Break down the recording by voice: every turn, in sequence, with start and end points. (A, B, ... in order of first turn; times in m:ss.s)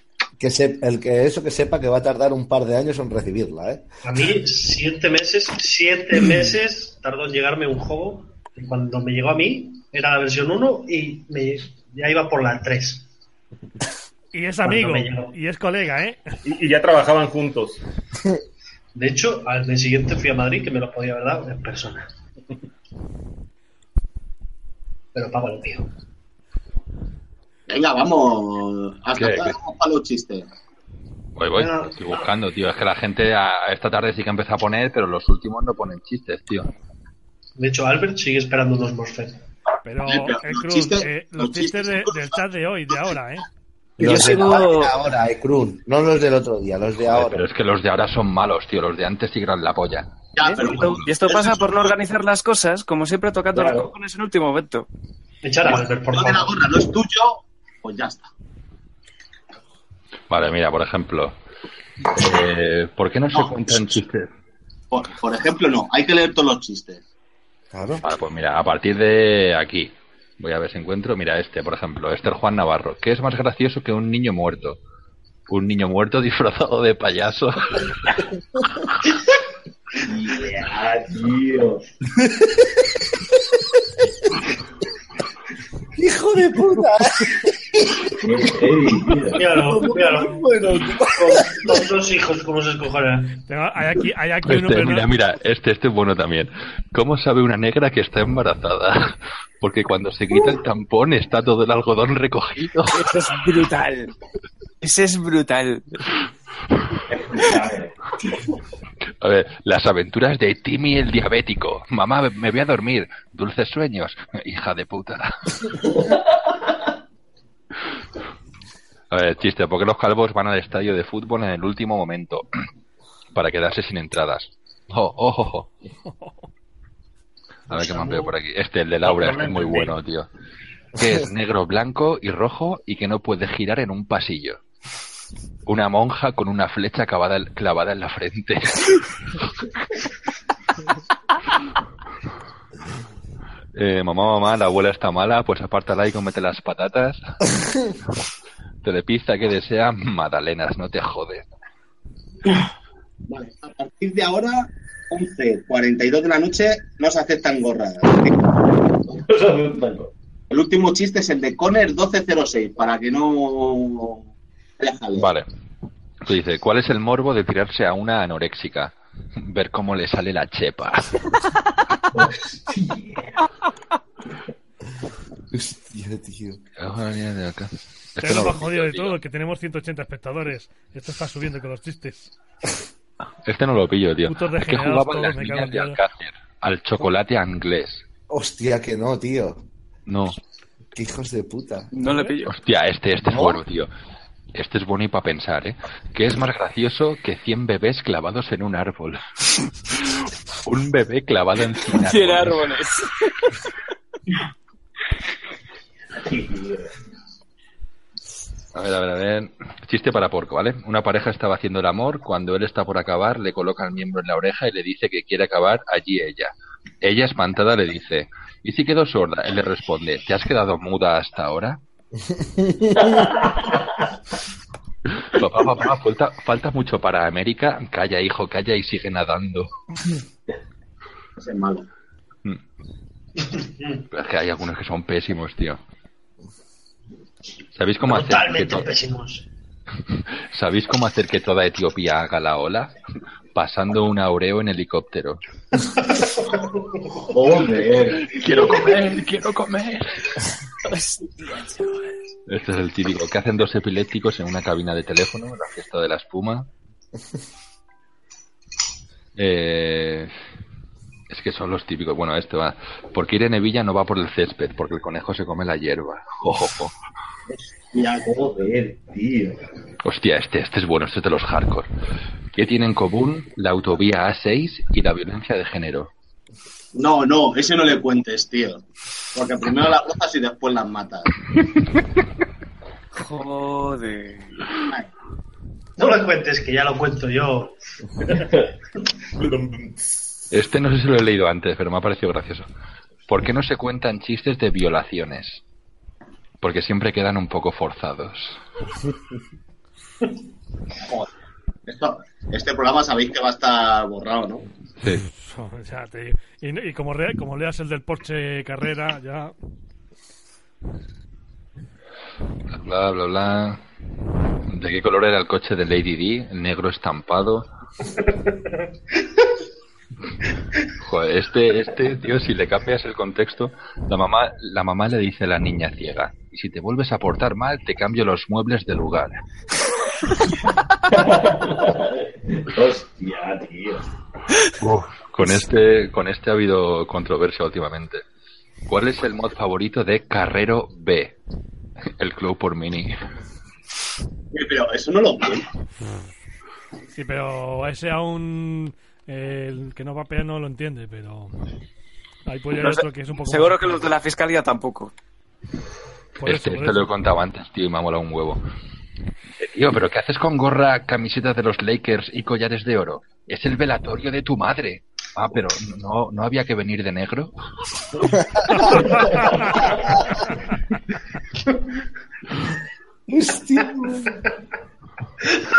0:00.4-0:03.8 A
0:04.0-0:13.1 B
0:14.3-0:16.2 C
0:14.6-0:15.3 B
0:16.4-0:17.8 D
0:18.9-0:22.1 B
0:25.1-0:25.9 B
0:27.7-0:30.5 E
0:29.2-0:29.6 F
0:31.4-0:36.7 F
0:31.6-0:32.3 B
0:37.6-0:39.4 B
0:39.8-0:43.4 C
0:40.0-0:42.4 E
0:44.0-0:44.9 G
0:44.0-0:47.4 A
0:47.1-0:50.1 F
0:50.4-0:51.6 E
0:50.4-0:54.9 G
0:50.8-0:51.1 F
0:53.5-0:53.9 H
0:55.4-0:56.7 B
0:55.6-0:58.3 E
1:00.3-1:01.3 F
1:02.1-1:04.3 F
1:03.3-1:04.0 E
1:04.9-1:07.0 E
1:07.7-1:08.0 A
1:08.0-1:14.8 F
1:15.5-1:18.2 F
1:20.0-1:21.8 H
1:25.9-1:28.2 A
1:28.2-1:29.4 H
1:29.4-1:30.5 B
1:29.4-1:31.8 A
1:31.1-1:33.4 B
1:33.5-1:35.1 C
1:34.4-1:43.1 F
1:42.9-1:44.1 G
1:44.8-1:46.0 G
1:47.1-1:47.9 H
1:49.2-1:55.8 F
1:59.1-2:02.4 F
2:03.3-2:05.7 F
2:06.1-2:06.4 C
2:07.7-2:10.3 F
2:07.7-2:08.3 B
2:09.0-2:10.0 D
2:11.0-2:14.6 F
2:15.6-2:19.0 F
2:23.7-2:27.2 F
2:28.8-2:31.4 F
2:33.3-2:38.5 E
2:39.1-2:40.1 H
2:40.5-2:44.3 E
2:44.8-2:45.3 E
2:45.1-2:45.5 F
2:46.2-2:51.3 F
2:52.1-2:53.4 H
2:55.5-2:56.6 A
2:56.8-2:59.1 F
2:58.2-3:02.3 C
3:03.4-3:08.0 F
3:04.2-3:06.0 C
3:08.3-3:09.6 A
3:10.1-3:10.4 F
3:10.9-3:11.9 A
3:11.9-3:12.5 G
3:12.0-3:12.3 C
3:12.5-3:13.9 F
3:13.2-3:13.6 A
3:14.5-3:19.2 F
3:19.9-3:22.7 F
3:21.8-3:23.5 G
3:26.1-3:26.9 H
3:28.7-3:41.8 F
3:42.7-3:43.0 A
3:43.0-3:43.8 H
3:45.2-3:49.7 F
3:51.4-3:51.9 E
3:53.5-3:54.0 B
3:54.1-3:55.8 F
3:57.7-3:58.9 F
3:58.0-3:59.4 B
4:00.5-4:02.9 F
4:03.5-4:05.4 F
4:07.2-4:08.8 H
4:08.2-4:10.3 F
4:10.8-4:12.1 G
4:12.5-4:16.7 F
4:19.4-4:20.3 F
4:21.3-4:26.9 F
4:27.9-4:28.3 E
4:28.0-4:29.6 H
4:30.0-4:31.9 F
4:32.5-4:36.1 F
4:36.9-4:41.3 E
4:43.1-4:44.7 G
4:46.0-4:48.4 B
4:49.4-4:50.0 D
4:50.5-4:52.7 F
4:53.3-4:55.6 F
4:56.6-4:58.6 F
5:01.8-5:04.7 E
5:05.3-5:09.5 C
5:12.7-5:13.8 F
5:14.7-5:17.7 F
5:21.0-5:29.4 F
5:31.1-5:34.1 H
5:34.8-5:38.2 F
5:38.9-5:41.4 F
5:42.2-5:43.1 F
5:44.5-5:45.7 E
5:47.1-5:51.5 C
5:52.4-5:54.1 C
5:52.8-5:55.1 G
5:56.4-5:58.6 F
5:56.4-5:57.1 C
5:59.6-6:07.5 F
6:08.7-6:09.8 C
6:09.3-6:09.8 H
6:13.3-6:14.4 A